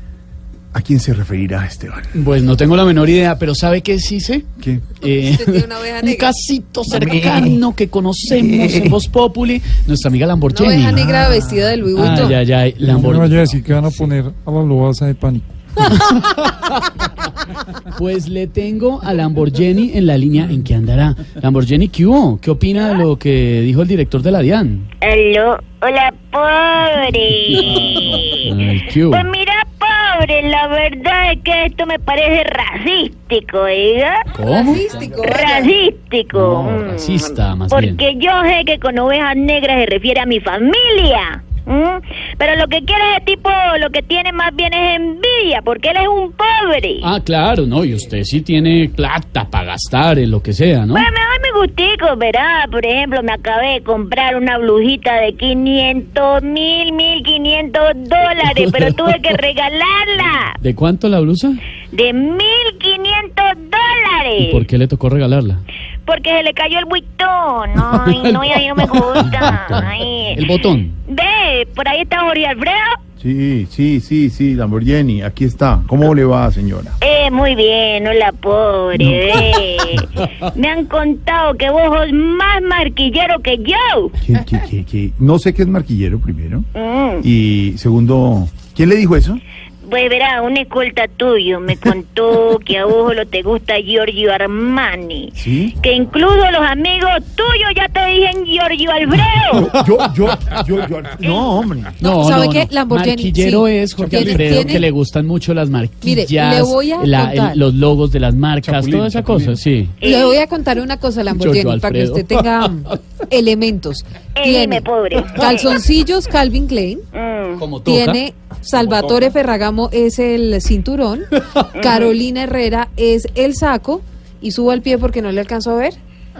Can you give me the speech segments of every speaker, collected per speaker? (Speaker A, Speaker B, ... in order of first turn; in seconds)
Speaker A: 0.7-2.1, 4.6-4.8, 6.9-7.6, 8.4-8.8, 11.1-11.5, 73.2-77.0, 84.2-86.7, 87.2-89.4, 95.3-95.7, 99.5-102.0
Speaker B: 2.1-4.5, 5.0-11.1, 11.9-14.1, 15.8-17.0, 17.9-24.9, 28.4-29.3, 34.3-35.3, 36.3-38.0, 47.0-51.1, 60.6-61.6, 64.4-65.6, 67.8-71.0, 102.0-110.0, 111.3-112.7, 117.6-118.2
Speaker C: 5.2-6.3, 10.5-12.4, 34.5-35.7, 102.0-104.9, 106.0-107.6, 110.0-117.0, 117.8-126.0
Speaker D: 12.8-16.0, 104.2-104.6, 108.7-109.4
Speaker E: 25.0-28.5, 29.1-34.3, 35.1-47.1, 50.9-60.5, 61.9-64.6, 66.1-70.5, 71.1-73.0, 77.0-84.1, 86.8-87.2, 89.8-99.8, 101.2-101.5, 110.0-110.4, 114.4-115.4, 117.1-117.7, 121.8-122.1